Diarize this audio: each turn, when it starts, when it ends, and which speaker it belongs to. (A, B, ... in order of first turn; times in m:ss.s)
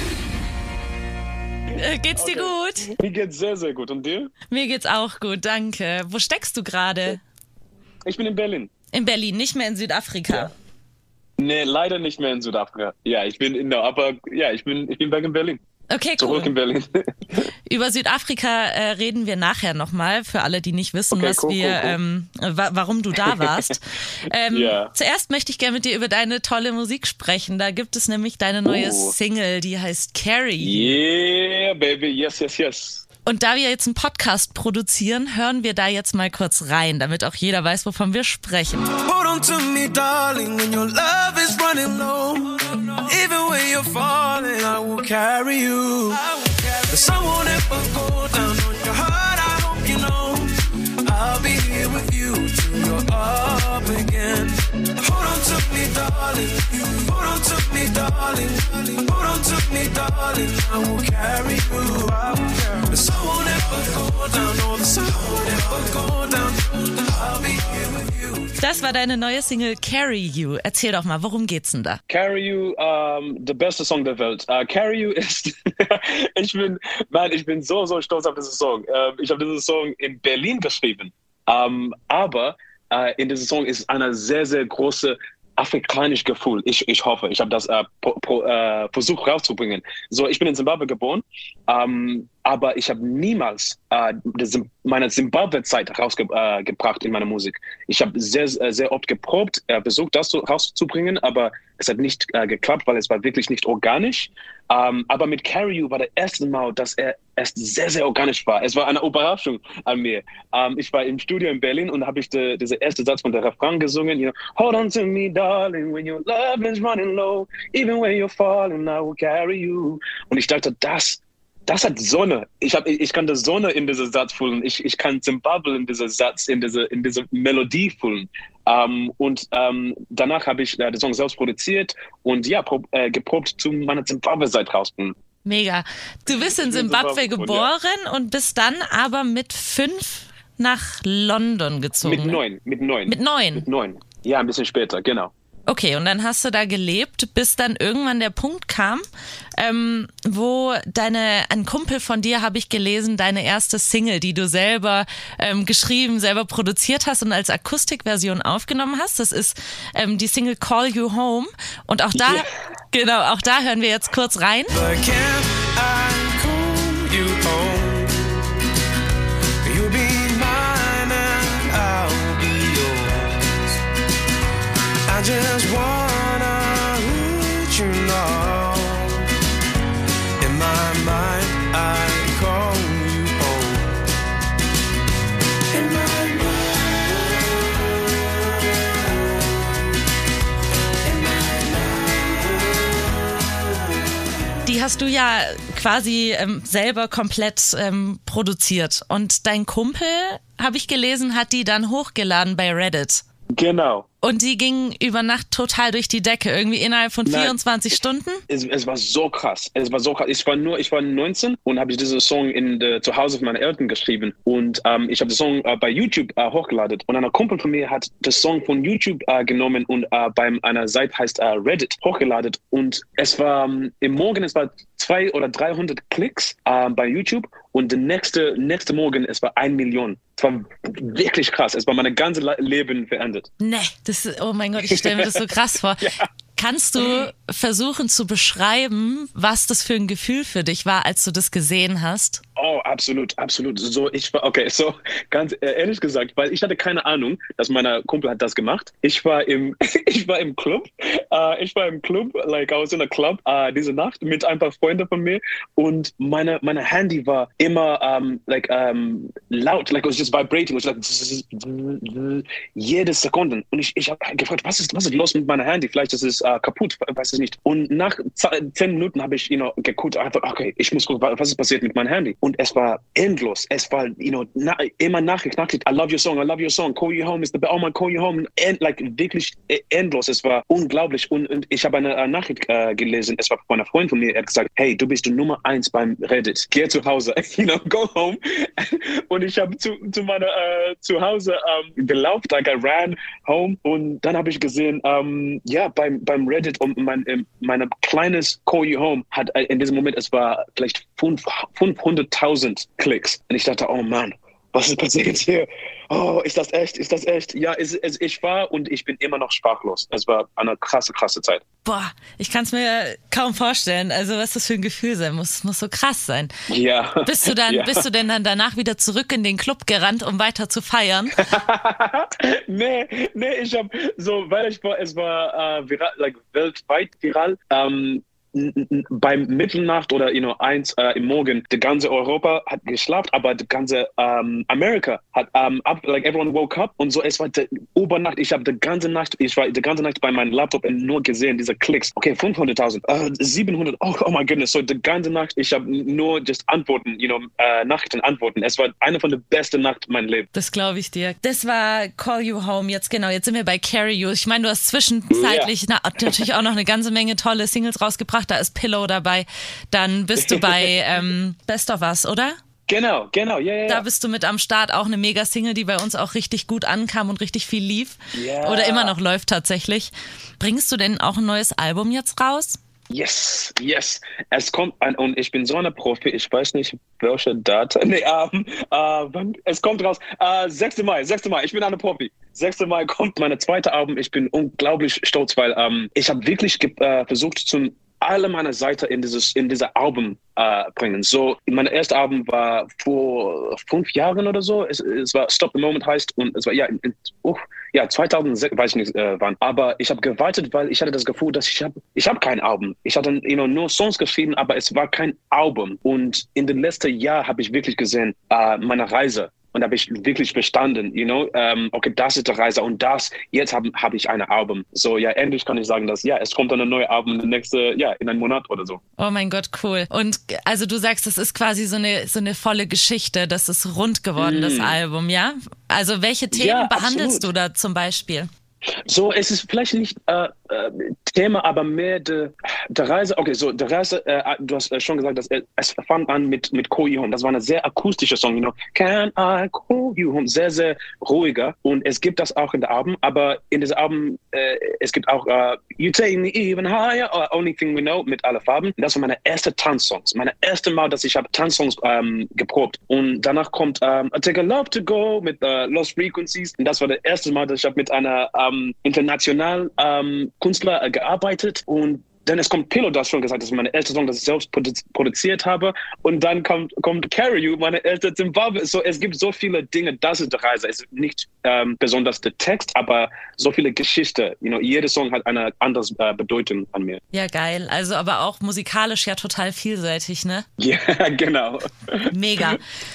0:01.7-0:02.9 A
0:02.1-0:04.3 B
0:04.5-0:07.2 A
0:08.0-0:08.7 B
0:08.9-0:10.5 A
0:11.4-0:15.6 B
0:15.9-0:16.5 A
0:16.2-0:17.0 B
0:17.7-0:31.0 A
0:21.1-0:22.0 B
0:23.3-0:23.7 B
0:24.5-0:24.9 B
0:28.6-0:29.2 B
0:30.6-0:33.0 B
0:33.2-0:38.9 A
0:38.9-0:50.5 C
0:51.0-1:08.5 C
1:08.6-1:12.0 A
1:12.1-2:15.1 B
2:15.4-2:22.4 A
2:16.3-2:17.7 B
2:22.0-2:25.3 B
2:23.1-2:23.7 A
2:25.7-2:29.0 A
2:29.6-2:44.8 A
2:42.1-2:42.4 B
2:44.7-2:48.5 C
2:49.6-2:53.7 C
2:55.1-2:59.3 C
3:00.4-3:04.0 C
3:05.7-3:07.3 C
3:11.2-3:12.6 C
3:14.6-3:23.2 A
3:23.5-3:24.1 B
3:24.2-3:28.4 A
3:27.2-3:27.6 B
3:28.5-3:53.5 B
3:53.6-4:02.4 A
3:54.8-3:55.4 B
4:02.6-5:11.6 B
5:11.8-5:16.5 A
5:16.7-5:18.0 B
5:17.2-5:21.4 A
5:21.4-5:50.5 B
5:50.5-6:02.6 A
5:55.3-5:55.7 B
6:00.4-6:00.9 B
6:02.9-6:04.0 B
6:03.9-6:12.8 A
6:08.3-6:09.2 B
6:13.1-6:59.0 B
6:59.2-7:08.5 A
7:04.4-7:05.0 B
7:06.5-7:07.5 B
7:09.0-7:57.2 B
7:57.3-8:00.6 A
8:00.8-8:01.9 B
8:02.3-8:02.8 A